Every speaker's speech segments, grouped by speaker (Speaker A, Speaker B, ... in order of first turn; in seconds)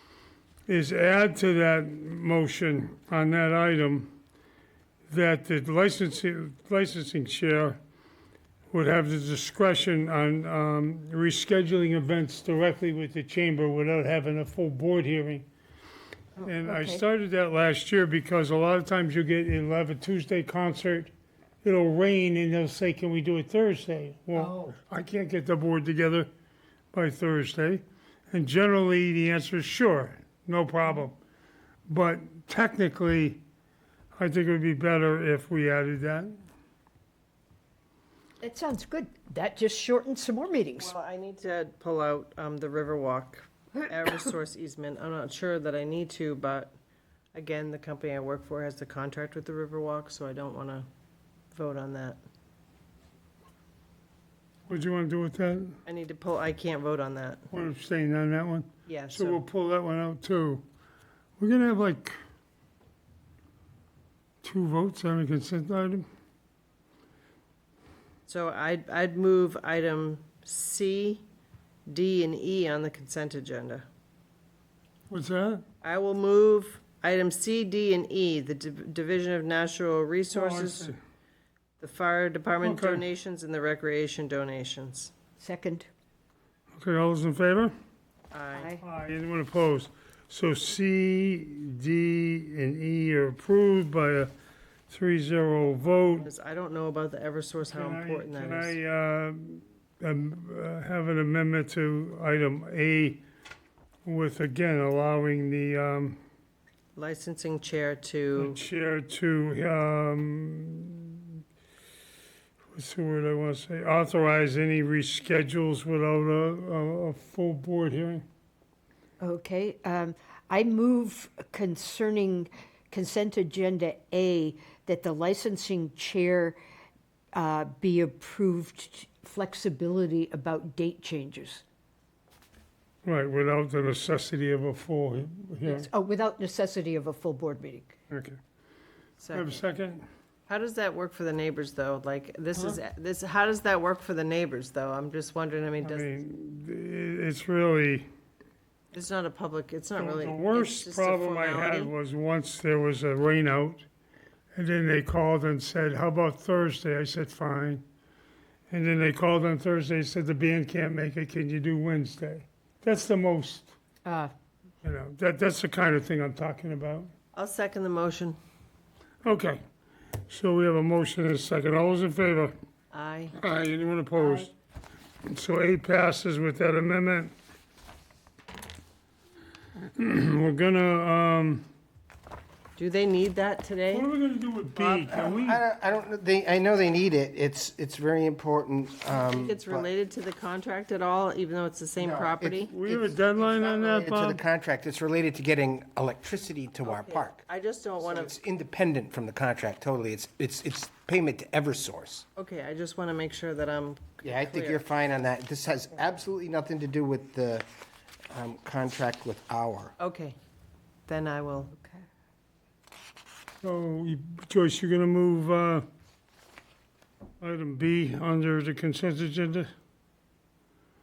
Speaker A: 0.7-4.2, 5.1-7.8, 8.7-15.5, 16.4-21.1, 21.6-26.3, 26.9-31.2, 31.9-33.4, 34.2-36.4, 54.7-55.8, 57.5-60.6, 61.4-62.2, 64.4-66.1, 75.1-75.6, 80.3-81.0, 82.6-83.0, 86.8-87.7, 88.8-94.3, 94.9-96.3, 97.7-103.2, 104.0-106.2, 108.4-111.4, 112.7-118.2, 133.1-135.9, 138.1-138.4, 139.3-140.1, 145.8-148.1, 150.0-153.8, 154.6-157.8, 158.7-163.8, 164.8-167.1, 169.2-169.6, 170.3-172.6, 173.4-174.5, 175.2-177.3, 179.9-181.7, 183.9-185.6, 192.7-194.4, 213.6-215.9, 217.4-219.7
Speaker B: 16.4-17.0, 24.3-24.8, 38.4-40.9, 85.4-85.9, 88.5-88.8, 119.2-126.6, 127.3-131.6, 135.6-137.9, 164.1-164.3, 174.2-174.5, 211.7-212.0
Speaker C: 40.8-46.7, 47.4-50.9, 51.5-52.2, 55.9-57.5, 58.9-59.4, 68.3-71.2, 71.9-73.8, 75.8-81.0, 81.8-85.1, 88.3-88.7, 96.1-98.8, 107.0-108.6, 139.2-139.6, 140.5-146.1, 148.9-151.9, 167.3-168.4, 172.9-173.4, 182.8-184.1, 184.8-185.1, 189.2-192.7, 193.6-193.8, 196.8-198.3, 202.4-204.8, 210.0-210.4, 211.1-211.7
Speaker D: 185.1-189.9, 192.0-193.0, 193.8-197.4, 198.0-202.3, 204.2-207.7, 208.3-209.9